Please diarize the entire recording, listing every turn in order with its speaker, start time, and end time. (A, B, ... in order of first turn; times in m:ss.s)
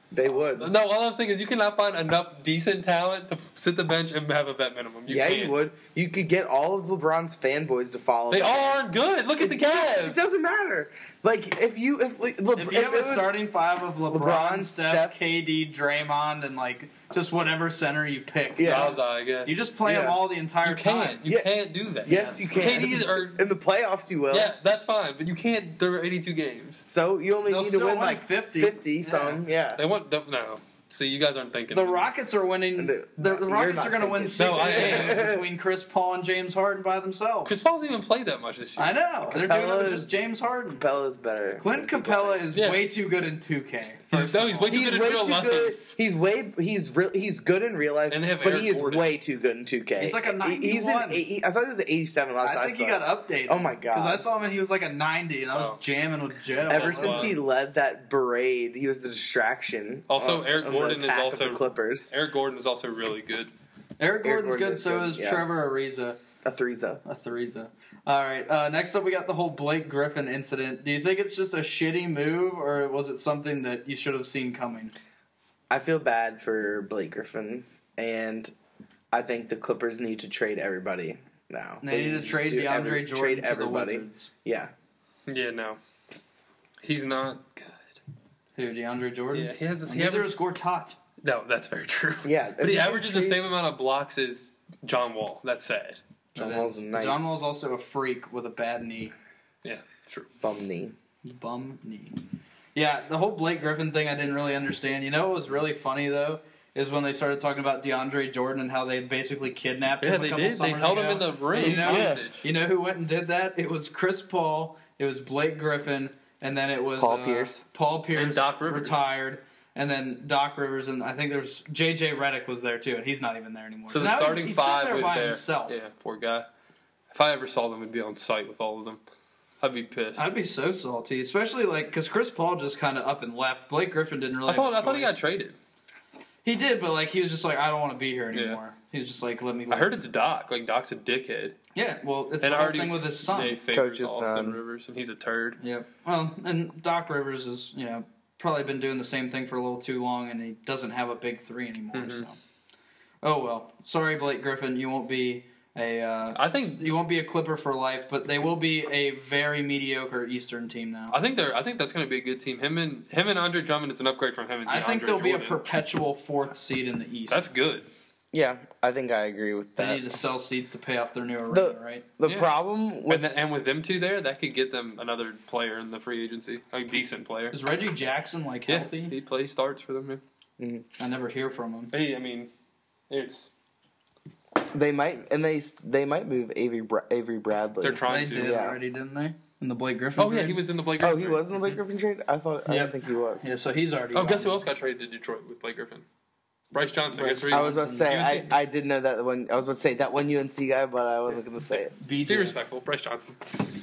0:00.1-0:00.7 A
0:00.5-0:05.6 B
0:05.1-0:08.8 A
0:08.3-0:10.2 B
0:09.4-0:13.4 A
0:12.5-0:21.2 C
0:14.1-0:15.2 A
0:18.6-0:18.9 A
0:18.6-0:19.6 B
0:19.8-0:20.2 A
0:20.6-0:23.4 B
0:22.0-0:24.5 A
0:22.1-0:22.8 C
0:24.3-0:26.8 B
0:26.9-0:29.8 A
0:27.4-0:29.4 C
0:29.8-0:32.1 B
0:31.7-0:37.6 C
0:32.8-0:35.4 A
0:34.4-0:35.3 B
0:37.4-0:39.0 B
0:38.8-0:40.8 C
0:39.3-0:40.1 A
0:40.7-0:42.4 A
0:41.6-0:44.8 C
0:42.5-0:42.9 B
0:44.1-0:45.8 B
0:44.7-0:54.2 A
0:48.1-0:49.1 B
0:50.0-0:51.2 C
0:52.4-0:57.4 C
0:55.5-0:55.8 B
0:56.7-0:57.4 B
0:56.7-1:02.1 A
1:00.1-1:03.5 B
1:04.0-1:06.2 C
1:04.2-1:05.4 A
1:06.4-1:07.0 A
1:07.0-1:14.9 C
1:15.7-1:18.5 A
1:19.1-1:24.7 A
1:21.8-1:24.3 C
1:25.3-1:25.8 B
1:26.8-1:27.8 B
1:28.6-1:31.0 C
1:29.3-1:30.4 B
1:31.2-1:36.0 B
1:32.2-1:33.4 A
1:36.3-1:39.1 C
1:36.4-1:37.4 A
1:39.6-1:40.3 B
1:40.4-1:40.9 A
1:41.2-1:42.2 C
1:42.7-2:05.8 C
1:50.0-1:52.4 B
1:51.6-1:52.3 A
1:57.0-1:57.6 A
1:58.1-1:59.1 B
2:03.9-2:06.5 B
2:07.1-2:09.0 B
2:09.6-2:10.3 B
2:10.2-2:15.2 C
2:14.4-2:15.6 B
2:16.4-2:19.9 C
2:18.3-2:18.6 B
2:19.7-2:21.6 B
2:21.7-2:23.6 C
2:22.4-2:25.6 B
2:23.7-2:24.6 A
2:25.6-2:32.4 C
2:31.9-2:32.2 B
2:33.2-2:41.2 C
2:36.3-2:36.8 B
2:41.1-2:45.7 B
2:44.6-2:47.4 C
2:47.3-2:47.9 B
2:48.3-2:50.0 A
2:49.8-2:52.1 C
2:51.5-2:53.3 A
2:52.2-2:52.5 B
2:53.0-2:57.6 B
2:57.5-2:59.1 C
2:58.7-3:00.2 B
3:00.6-3:00.8 A
3:01.0-3:01.9 C
3:01.9-3:02.5 B
3:03.1-3:03.5 B
3:04.7-3:08.8 A
3:07.8-3:08.6 B
3:08.1-3:10.6 C
3:10.2-3:11.6 B
3:11.0-3:13.5 A
3:12.6-3:14.6 C
3:14.1-3:16.0 B
3:16.7-3:18.3 B
3:17.1-3:18.5 C
3:17.5-3:21.9 A
3:22.0-3:22.6 C
3:22.2-3:23.6 B